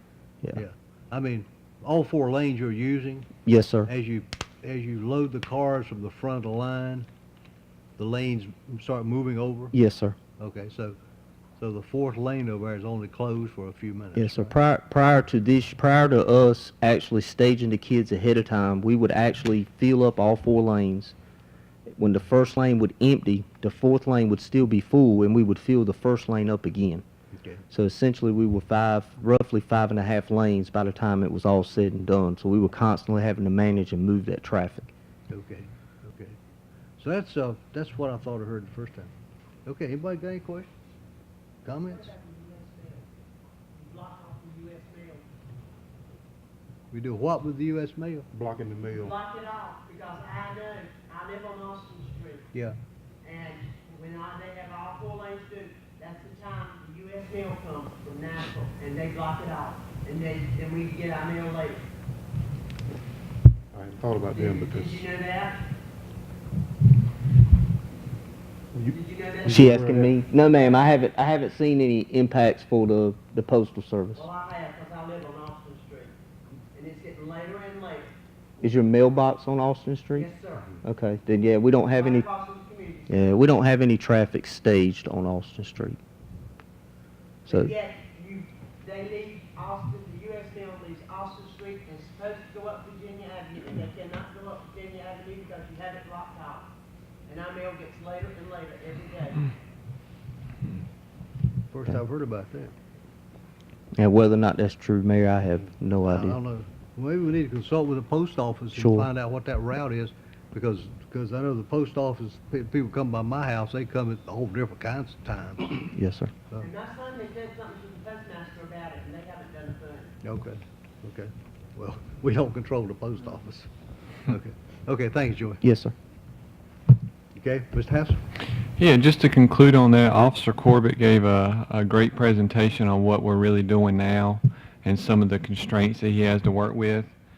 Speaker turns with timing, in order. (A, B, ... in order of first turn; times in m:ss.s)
0:00.5-0:03.3 A
0:03.4-0:03.9 B
0:03.8-0:07.1 A
0:08.0-0:09.7 A
0:09.7-0:10.2 B
0:10.4-0:11.0 A
0:11.6-0:14.5 A
0:14.1-0:21.1 B
0:22.0-0:27.0 B
0:27.3-0:27.6 A
0:27.7-0:34.9 B
0:35.3-0:36.4 A
0:37.0-0:39.1 A
0:39.6-0:40.7 A
0:41.6-0:42.1 A
0:41.8-0:43.1 C
0:43.7-0:45.2 C
0:46.9-0:48.2 A
0:48.3-0:49.1 D
0:48.9-0:52.5 C
0:53.2-1:01.8 C
1:03.7-1:05.0 D
1:04.3-1:05.6 C
1:08.7-1:10.1 D
1:08.9-1:09.7 C
1:09.5-1:14.3 B
1:14.1-1:16.1 C
1:16.7-1:18.1 C
1:18.6-1:20.3 B
1:20.1-1:20.7 C
1:20.8-1:22.3 B
1:21.9-1:23.4 C
1:23.1-1:26.0 B
1:27.4-1:36.7 C
1:27.5-1:27.7 B
1:37.2-1:39.5 C
1:41.7-1:42.7 A
1:43.9-1:46.4 B
1:46.0-1:55.8 A
1:48.7-1:49.1 B
1:55.8-1:56.3 B
1:56.6-2:00.1 C
2:00.2-2:03.7 A
2:04.3-2:05.6 A
2:05.6-2:05.9 B
2:07.3-2:08.2 A
2:08.8-2:17.1 E